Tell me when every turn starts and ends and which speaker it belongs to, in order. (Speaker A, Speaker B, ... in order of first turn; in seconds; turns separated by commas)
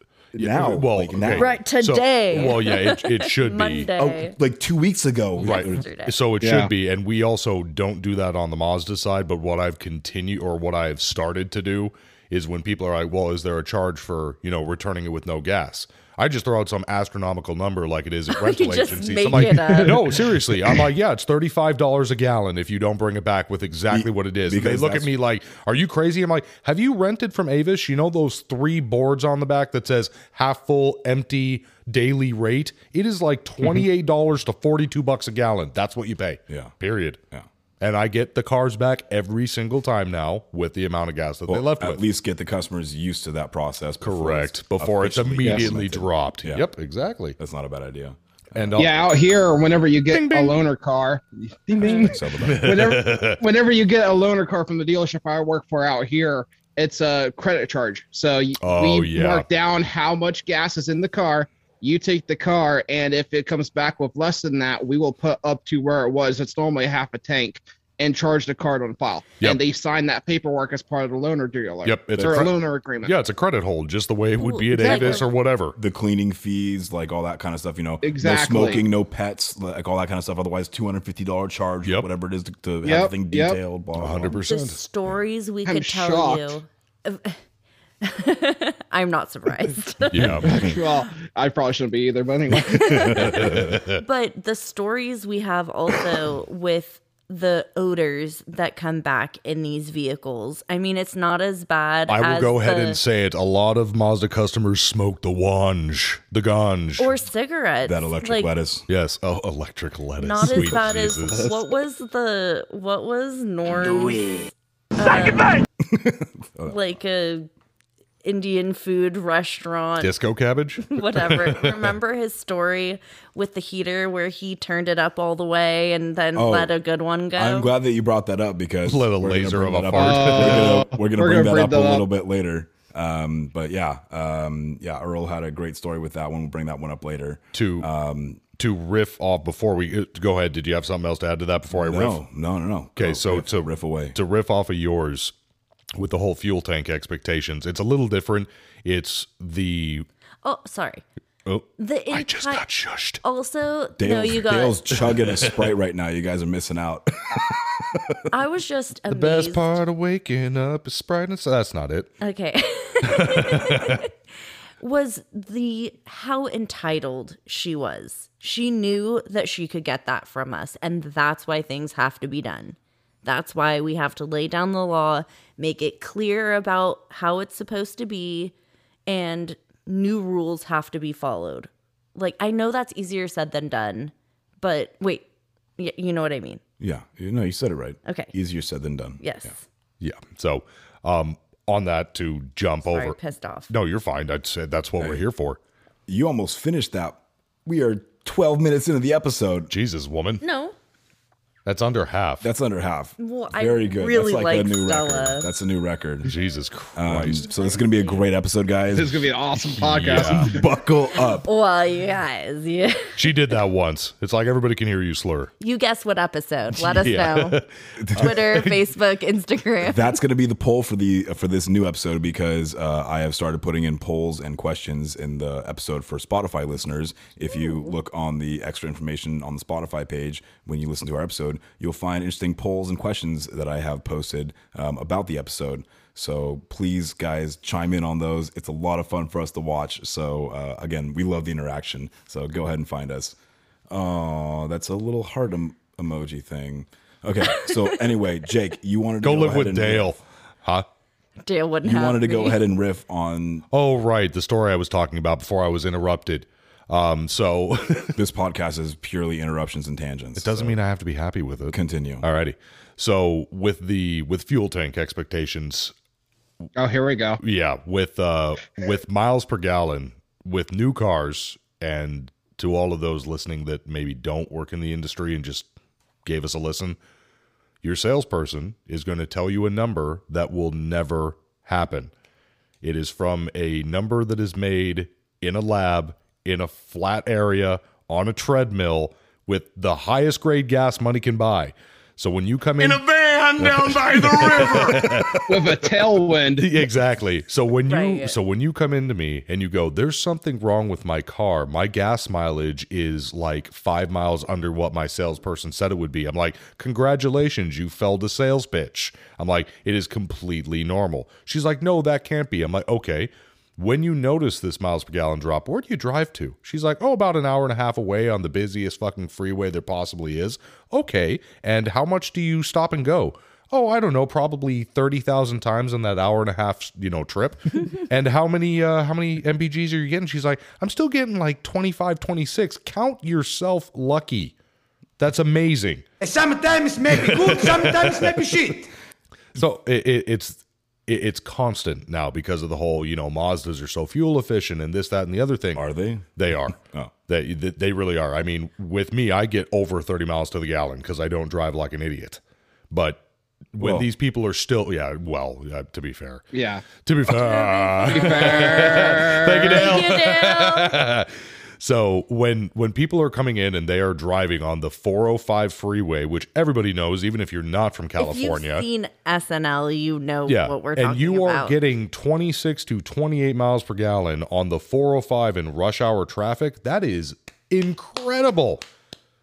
Speaker A: 0.3-1.6, Speaker B: 0.4-3.9, Speaker C: 1.3-4.4, Speaker A: 3.9-5.8, Speaker C: 5.4-6.2, Speaker B: 5.4-37.2, Speaker D: 6.4-6.7, Speaker C: 18.3-20.0, Speaker A: 23.9-25.1, Speaker A: 36.5-36.7, Speaker B: 37.8-42.0, Speaker A: 41.5-46.7, Speaker B: 44.0-47.4, Speaker D: 45.4-45.7, Speaker A: 47.4-48.8, Speaker B: 48.5-49.1, Speaker D: 48.8-73.1, Speaker B: 50.1-50.6, Speaker C: 51.8-52.1, Speaker A: 51.8-53.0, Speaker B: 52.4-53.4, Speaker B: 58.6-59.5, Speaker B: 71.8-75.7, Speaker A: 72.2-72.5, Speaker C: 74.4-75.3, Speaker D: 74.8-75.2, Speaker A: 75.8-84.4, Speaker D: 78.0-78.8, Speaker D: 82.8-83.6, Speaker B: 84.0-84.8, Speaker C: 84.3-87.4, Speaker D: 85.7-86.6, Speaker C: 88.0-90.8, Speaker B: 90.1-90.5, Speaker A: 90.2-90.8, Speaker D: 90.4-93.3, Speaker C: 92.6-103.0, Speaker B: 92.9-94.0, Speaker A: 93.3-93.6, Speaker B: 102.1-107.1, Speaker C: 107.0-108.5, Speaker A: 107.8-108.9, Speaker B: 108.9-111.5, Speaker C: 110.2-114.4, Speaker C: 115.0-115.6, Speaker A: 115.8-116.8, Speaker C: 116.6-117.5, Speaker C: 118.2-120.1, Speaker B: 120.0-121.9, Speaker C: 120.9-127.7, Speaker A: 126.3-126.7, Speaker A: 127.3-138.4, Speaker B: 128.8-130.8, Speaker D: 129.9-132.1, Speaker B: 137.5-137.9, Speaker B: 138.6-142.2, Speaker A: 141.7-144.2, Speaker B: 142.9-145.3, Speaker B: 145.9-150.1, Speaker C: 150.4-151.0, Speaker B: 151.4-153.2, Speaker C: 151.8-152.7, Speaker C: 153.2-154.8, Speaker A: 154.0-158.2, Speaker B: 155.2-155.5, Speaker C: 158.3-159.8, Speaker B: 159.1-162.1, Speaker C: 162.2-164.1, Speaker B: 163.0-164.0, Speaker C: 164.8-178.5, Speaker C: 179.1-185.2, Speaker C: 185.8-186.6, Speaker A: 186.8-189.2, Speaker C: 188.1-188.3, Speaker C: 189.2-189.6, Speaker B: 190.0-193.2, Speaker C: 192.9-193.7, Speaker B: 193.7-195.6, Speaker A: 196.1-199.7, Speaker B: 199.7-200.4, Speaker C: 200.4-200.7, Speaker B: 201.7-202.5, Speaker A: 202.4-206.3, Speaker C: 203.2-205.5, Speaker B: 206.2-207.4, Speaker A: 206.9-209.3, Speaker C: 207.3-208.3, Speaker D: 208.9-210.6, Speaker B: 209.8-210.5, Speaker A: 210.1-211.5, Speaker C: 211.2-213.3, Speaker B: 213.2-215.5, Speaker C: 215.6-217.6, Speaker B: 216.8-218.8, Speaker A: 218.0-218.6, Speaker C: 218.2-220.2, Speaker A: 219.8-243.3, Speaker A: 243.9-250.2, Speaker B: 249.2-250.8, Speaker C: 251.4-252.6, Speaker A: 251.8-253.7, Speaker B: 253.7-258.2, Speaker A: 258.1-260.8, Speaker B: 260.4-265.9, Speaker A: 261.7-262.2, Speaker D: 266.8-267.4, Speaker B: 267.4-275.7, Speaker B: 276.2-277.0, Speaker B: 277.8-282.1, Speaker B: 282.8-293.0, Speaker E: 292.8-295.4, Speaker B: 293.6-295.4, Speaker D: 295.5-296.7, Speaker B: 296.6-334.5, Speaker C: 297.9-298.3, Speaker B: 335.2-336.0, Speaker E: 336.2-338.9, Speaker B: 337.3-338.2, Speaker B: 339.5-345.8, Speaker A: 345.7-347.1, Speaker B: 346.4-352.4, Speaker B: 352.9-353.2, Speaker B: 353.7-356.4, Speaker A: 353.8-354.1, Speaker D: 356.5-356.9, Speaker B: 356.9-368.9, Speaker C: 357.4-360.9, Speaker D: 358.1-359.9, Speaker C: 368.2-371.8, Speaker B: 370.5-378.8